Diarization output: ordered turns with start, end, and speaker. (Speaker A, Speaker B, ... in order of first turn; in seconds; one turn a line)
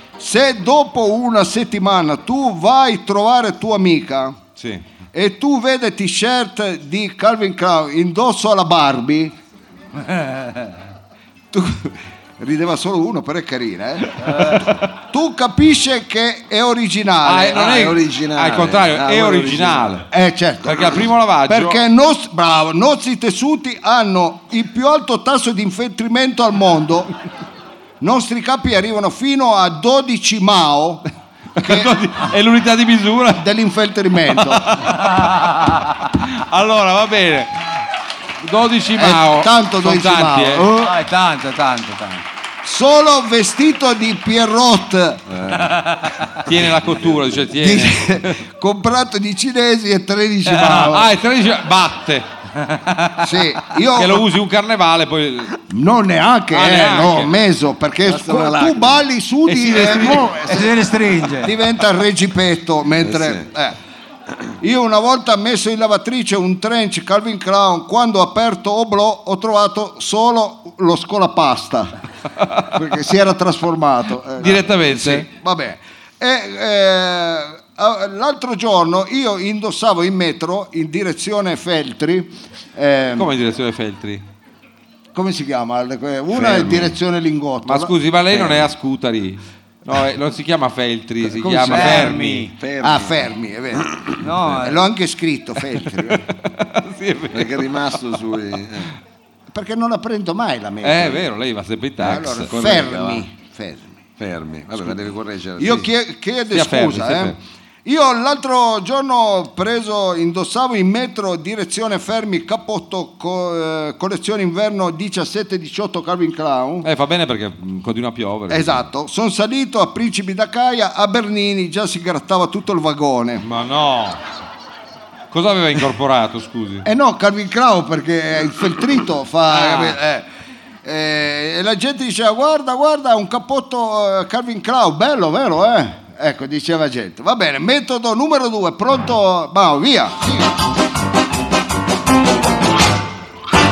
Speaker A: 0.2-4.4
Speaker B: 4.6-4.8
Speaker A: 5.1-9.3
Speaker C: 10.0-10.7
Speaker A: 11.5-17.8
Speaker C: 14.2-14.6
Speaker B: 17.2-20.1
Speaker D: 17.5-20.0
Speaker A: 20.1-27.1
Speaker B: 20.6-21.8
Speaker A: 28.0-31.1
Speaker B: 31.6-33.5
Speaker A: 31.6-32.0
Speaker A: 33.3-34.7
Speaker B: 34.3-37.8
Speaker B: 38.4-40.7
Speaker A: 39.0-41.0
Speaker C: 40.8-42.3
Speaker A: 42.6-45.2
Speaker D: 45.3-45.8
Speaker C: 45.6-46.1
Speaker B: 46.4-48.4
Speaker D: 46.6-47.4
Speaker A: 47.6-51.1
Speaker B: 50.6-52.3
Speaker C: 52.6-53.2
Speaker A: 53.2-54.3
Speaker B: 53.9-55.6
Speaker A: 55.7-60.9
Speaker B: 56.5-57.3
Speaker D: 58.0-59.0
Speaker B: 59.5-60.2
Speaker C: 59.9-61.6
Speaker A: 61.4-63.8
Speaker D: 63.0-63.5
Speaker A: 64.6-72.0
Speaker A: 72.7-83.3
Speaker B: 74.4-75.3
Speaker B: 83.2-84.2
Speaker A: 85.1-88.0
Speaker D: 86.3-86.9
Speaker B: 87.7-92.5
Speaker D: 88.3-88.7
Speaker C: 91.5-92.5
Speaker D: 92.6-93.3
Speaker A: 92.8-96.3
Speaker C: 94.2-94.8
Speaker B: 96.1-97.7
Speaker D: 97.3-98.9
Speaker A: 99.5-101.3
Speaker B: 100.8-102.5
Speaker A: 102.0-104.0
Speaker D: 102.1-103.2
Speaker D: 104.2-105.9
Speaker A: 105.6-116.9
Speaker B: 106.5-107.4
Speaker B: 116.8-118.8
Speaker A: 118.5-123.5
Speaker B: 123.4-124.2
Speaker B: 125.3-126.9
Speaker A: 126.8-130.3
Speaker B: 129.5-129.9
Speaker A: 130.8-140.6